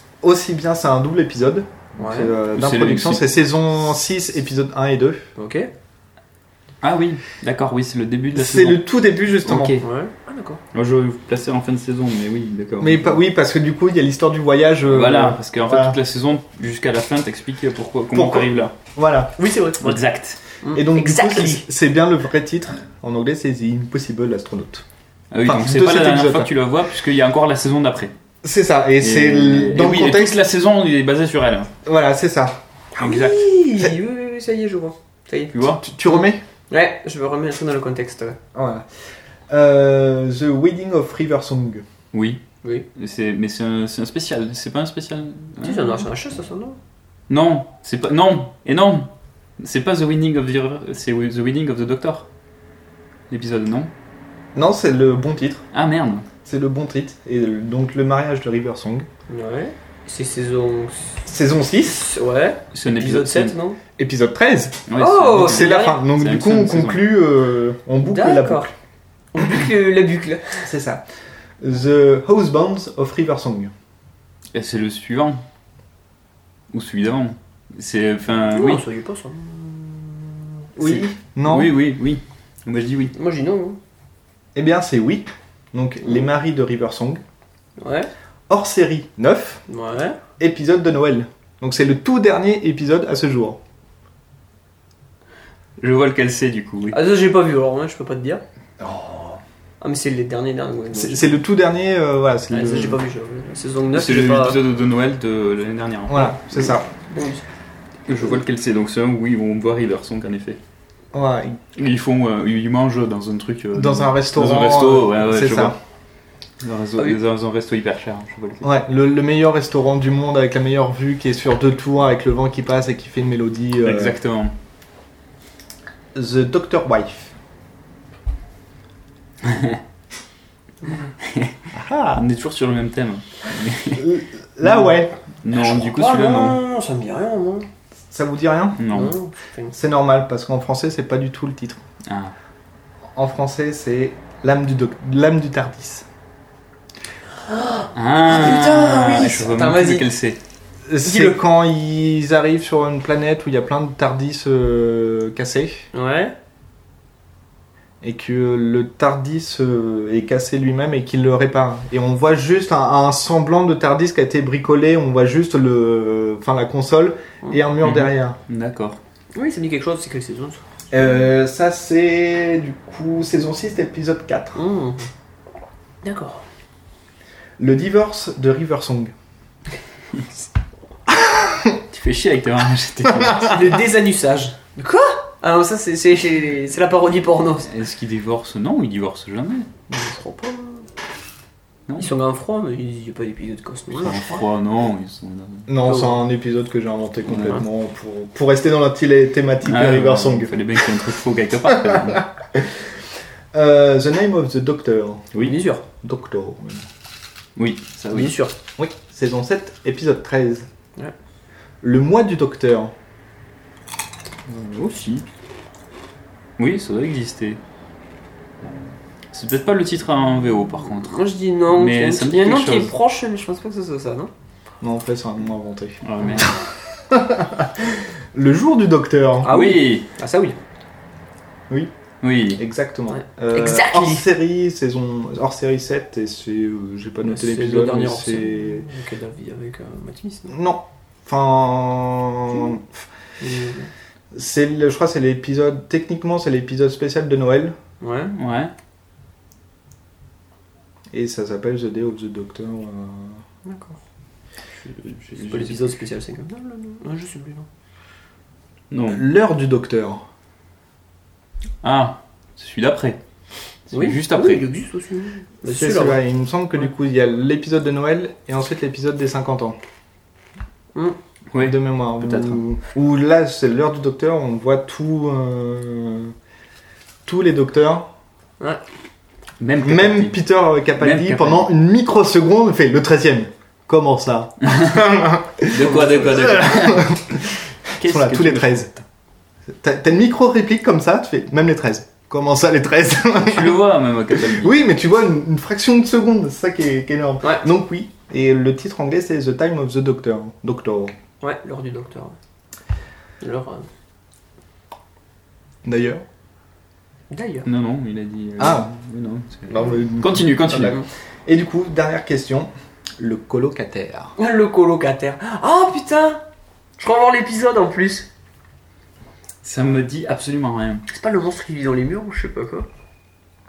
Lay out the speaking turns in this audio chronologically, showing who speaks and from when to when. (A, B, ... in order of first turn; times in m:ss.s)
0:00.2-0:05.3 A
0:02.0-0:02.3 B
0:02.5-0:03.2 C
0:05.4-0:05.7 B
0:06.8-0:08.9 C
0:08.4-0:09.8 A
0:09.4-0:09.8 C
0:09.8-0:10.6 B
0:10.7-0:13.2 C
0:12.8-0:16.0 A
0:14.9-0:18.7 C
0:18.1-0:19.4 A
0:19.4-0:20.0 B
0:19.8-0:20.4 C
0:20.6-0:21.7 B
0:20.7-0:24.8 A
0:25.3-0:28.1 C
0:25.4-0:26.5 A
0:28.4-0:30.4 A
0:29.0-0:31.7 C
0:31.9-0:32.6 A
0:33.0-0:33.4 C
0:33.0-0:35.5 B
0:35.5-0:35.8 C
0:35.8-0:36.4 A
0:36.1-0:38.4 B
0:38.5-0:38.9 A
0:39.5-0:41.8 A
0:42.1-0:42.4 C
0:43.0-0:46.1 C
0:45.6-0:46.8 B
0:47.3-0:52.3 C
0:53.3-0:53.9 C
0:54.5-0:55.6 A
0:55.7-0:56.2 C
0:56.4-0:59.1 A
0:59.3-1:01.1 B
1:01.2-1:02.1 A
1:02.0-1:03.8 B
1:02.7-1:03.6 C
1:04.0-1:04.8 A
1:04.9-1:07.1 C
1:05.0-1:06.0 B
1:05.4-1:08.7 A
1:08.0-1:08.7 B
1:09.3-1:10.6 B
1:10.6-1:11.0 A
1:11.6-1:13.7 A
1:14.5-1:15.4 C
1:16.7-1:18.8 C
1:18.4-1:20.4 B
1:20.8-1:21.8 A
1:20.8-1:23.1 C
1:23.1-1:23.8 B
1:24.6-1:27.2 A
1:27.8-1:28.1 B
1:28.5-1:29.6 A
1:29.7-1:30.2 B
1:30.4-1:33.6 A
1:35.8-1:37.0 C
1:36.9-1:38.4 B
1:38.8-1:39.4 A
1:39.8-1:41.3 B
1:40.9-1:43.0 A
1:42.5-1:44.6 B
1:43.9-1:46.7 C
1:46.1-1:46.9 A
1:47.1-1:47.4 B
1:48.1-1:50.6 C
1:51.1-1:51.6 A
1:51.8-1:55.8 C
1:53.8-1:55.8 A
1:56.6-1:58.7 C
1:58.6-2:04.2 A
2:03.8-2:04.5 C
2:06.2-2:07.3 A
2:09.4-2:09.8 C
2:11.2-2:11.6 C
2:11.7-2:12.2 A
2:12.1-2:16.6 C
2:14.0-2:15.1 A
2:15.5-2:17.7 B
2:18.1-2:18.9 A
2:18.8-2:19.2 C
2:18.9-2:19.8 B
2:19.7-2:21.8 A
2:22.0-2:22.3 C
2:23.2-2:26.1 A
2:27.5-2:30.1 B
2:27.9-2:30.4 C
2:30.9-2:35.9 A
2:31.0-2:31.4 B
2:35.9-2:36.3 B
2:38.0-2:48.4 A
2:47.8-2:49.0 C
2:49.4-2:50.6 B
2:50.9-2:54.6 A
2:54.6-2:55.1 B
2:56.0-2:56.4 B
2:57.6-2:59.1 A
3:01.9-3:03.8 C
3:03.4-3:07.7 B
3:07.7-3:09.7 C
3:09.9-3:10.9 B
3:12.0-3:14.4 B
3:14.0-3:15.7 C
3:15.7-3:20.6 A
3:15.8-3:16.1 B
3:19.6-3:22.3 C
3:21.7-3:22.7 A
3:23.5-3:25.3 A
3:25.4-3:25.8 B
3:26.0-3:26.8 A
3:27.6-3:28.3 C
3:28.1-3:28.5 B
3:28.8-3:30.7 A
3:31.8-3:32.9 A
3:34.5-3:35.2 C
3:36.6-3:37.6 C
3:39.3-3:42.9 C
3:41.0-3:44.3 B
3:44.8-3:49.6 A
3:46.0-3:46.5 C
3:49.4-3:50.6 B
3:49.5-3:50.1 C
3:52.2-3:52.6 C
3:52.5-3:58.9 A
3:53.1-3:54.3 B
3:57.2-4:00.5 B
4:00.5-4:03.1 A
4:03.4-4:03.9 B
4:04.3-4:07.8 A
4:08.0-4:08.3 B
4:08.4-4:08.7 C
4:11.1-4:13.4 A
4:13.7-4:14.0 B
4:14.8-4:15.9 C
4:15.3-4:17.7 B
4:18.9-4:19.2 C
4:19.1-4:20.2 A
4:21.8-4:23.2 C
4:23.9-4:24.7 C
4:23.9-4:26.2 B
4:25.6-4:29.8 A
4:31.5-4:32.6 C
4:31.6-4:36.3 A
4:37.3-4:38.1 A
4:39.6-4:40.4 C
4:39.8-4:47.4 A
4:41.0-4:41.7 C
4:44.7-4:44.9 C
4:45.7-4:47.4 C
4:45.8-4:46.2 B
4:48.0-4:49.0 C
4:48.0-4:48.9 A
4:49.7-4:53.8 A
4:53.4-4:54.8 C
4:54.3-5:01.1 A
5:01.4-5:02.4 B
5:03.4-5:03.9 B
5:05.8-5:06.2 A
5:07.3-5:07.7 B
5:07.6-5:11.0 C
5:08.6-5:08.9 A
5:09.7-5:14.3 A
5:14.4-5:16.4 B
5:17.0-5:18.3 B
5:19.6-5:21.0 C
5:21.1-5:22.9 B